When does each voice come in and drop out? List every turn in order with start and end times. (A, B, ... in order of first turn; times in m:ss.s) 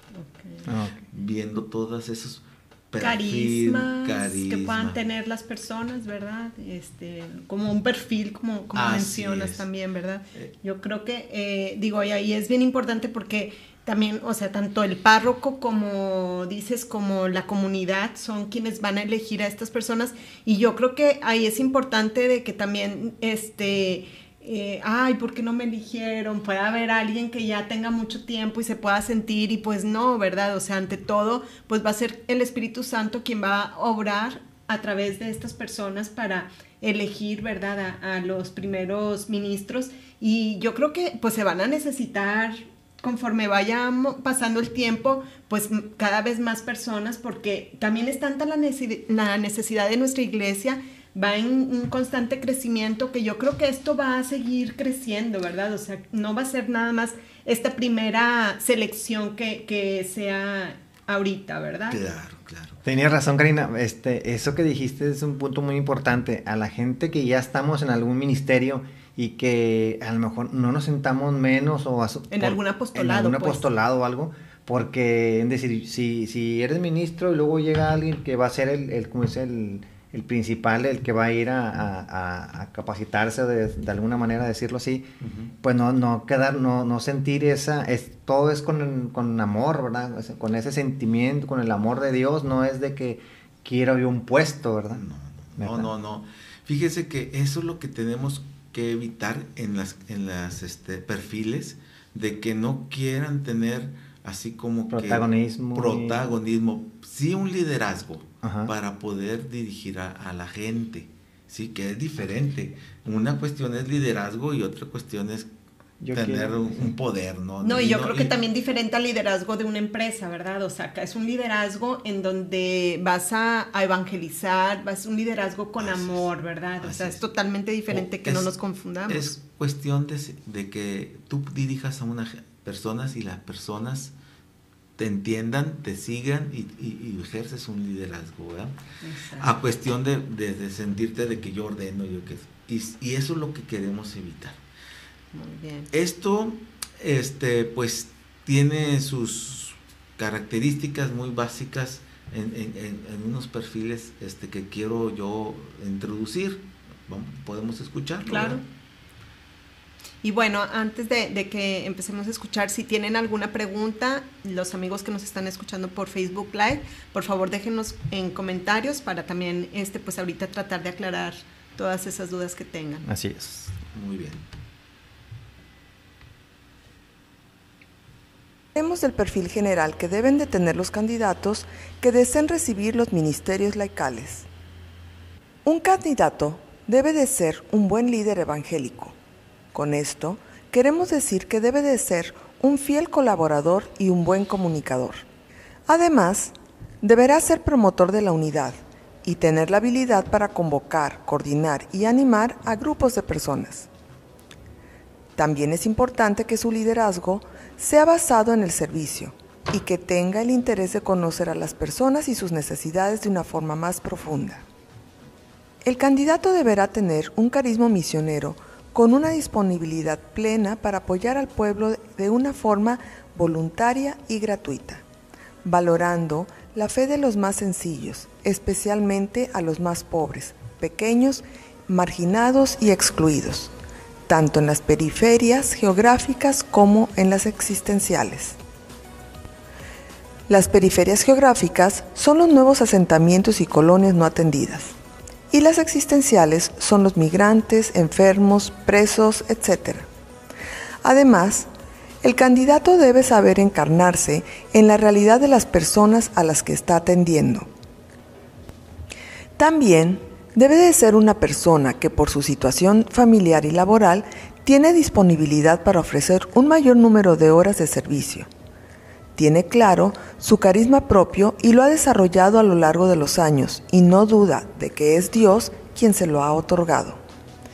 0:00.1-0:00.6 A
0:00.7-0:01.0 B
0:01.1-0:05.0 C
0:03.0-1:02.0 A
0:08.7-0:09.6 C
1:01.9-1:02.8 C
1:02.8-1:25.1 B
1:12.3-1:13.6 A
1:25.2-1:25.5 C
1:25.6-1:35.0 B
1:34.9-1:55.5 C
1:35.6-1:35.9 B
1:44.9-1:46.2 B
1:48.4-1:48.7 B
1:56.0-1:56.9 B
1:56.1-1:58.3 C
1:57.6-2:09.4 A
2:05.8-2:06.2 C
2:06.8-2:07.2 C
2:07.9-2:08.5 C
2:09.1-2:14.1 C
2:15.0-2:18.7 C
2:19.0-2:19.5 A
2:19.4-2:24.6 C
2:25.3-2:25.9 A
2:25.9-2:38.6 C
2:38.2-2:38.6 A
2:40.2-2:53.0 A
2:53.0-2:53.7 B
2:53.9-2:54.4 C
2:58.8-3:04.4 D
3:05.6-3:09.2 D
3:09.7-3:15.2 D
3:15.9-3:23.9 D
3:25.4-3:34.6 D
3:35.8-3:45.0 D
3:45.6-3:53.7 D
3:54.3-3:58.6 D
4:00.5-4:04.9 D
4:05.5-4:10.1 D
4:11.0-4:11.7 D
4:12.2-4:17.7 D
4:19.6-4:28.5 D
4:29.4-4:37.2 D